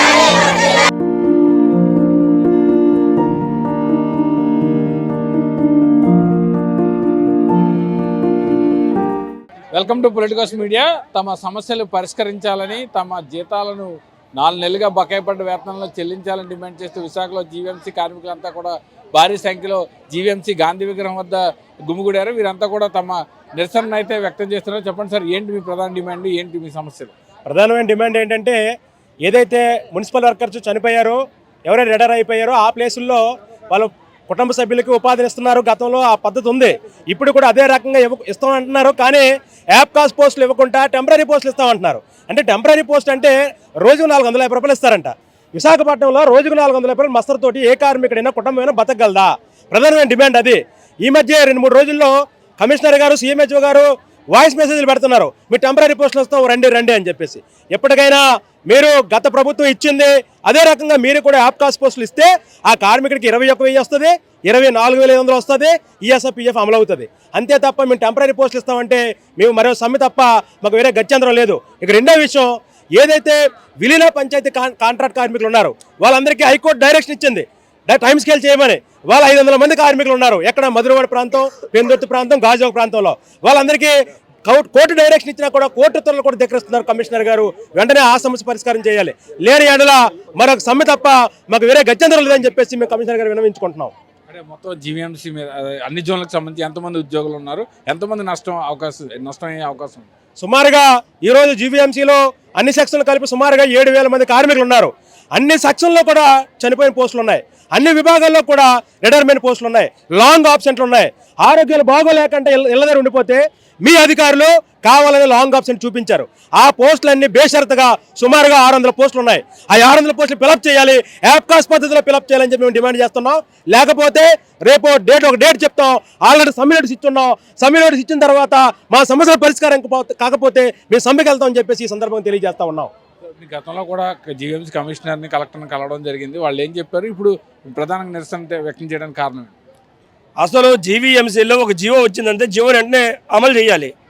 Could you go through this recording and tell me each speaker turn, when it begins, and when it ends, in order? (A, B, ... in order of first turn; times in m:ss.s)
0:09.7-0:27.1 A
0:27.5-0:28.6 B
0:29.2-1:23.9 B
1:24.4-1:33.9 B
1:34.3-1:40.1 A
1:40.4-2:12.9 B
2:13.4-2:19.5 A
2:20.4-2:23.9 C